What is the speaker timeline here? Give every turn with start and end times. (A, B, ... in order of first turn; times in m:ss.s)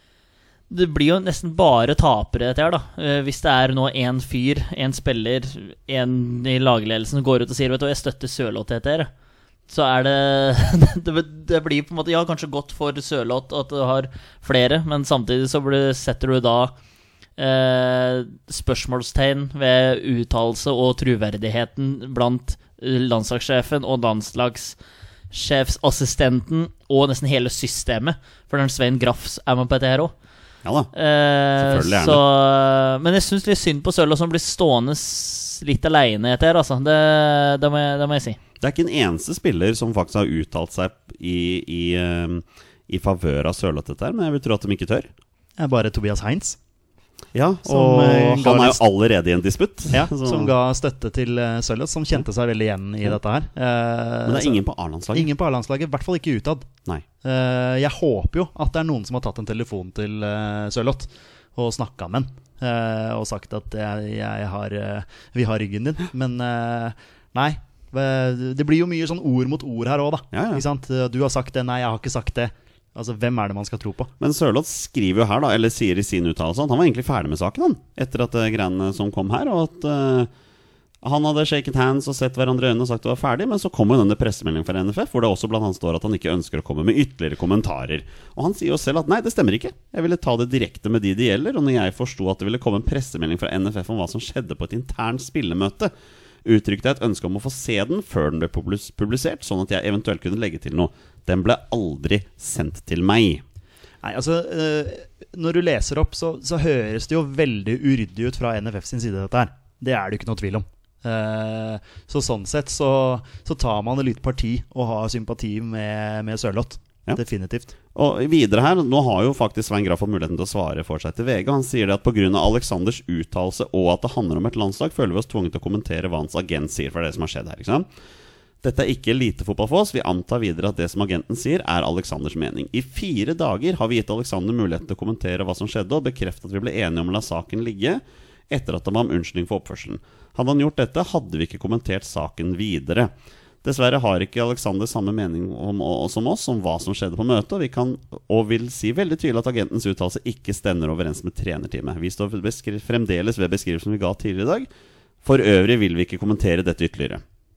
0:00.7-0:09.1 A
0:09.7-0:16.7 A
0:17.4-0:24.8 A
0:25.3-0:30.1 A
0:30.6-0:30.9 B
0:30.9-0:38.4 A
0:31.6-0:32.2 B
0:38.6-0:45.1 B
0:45.6-0:46.6 C
0:47.3-0:50.5 B
0:47.6-0:48.8 C
0:49.9-0:54.6 C
0:54.3-0:55.3 B
0:55.1-0:56.7 C
0:57.2-1:14.1 C
1:10.3-1:10.6 B
1:14.2-1:20.3 B
1:21.0-1:35.9 B
1:36.4-1:43.4 B
1:44.0-1:57.7 C
1:57.9-2:07.9 B
2:08.6-2:23.1 B
2:23.6-2:34.7 B
2:35.2-2:37.2 B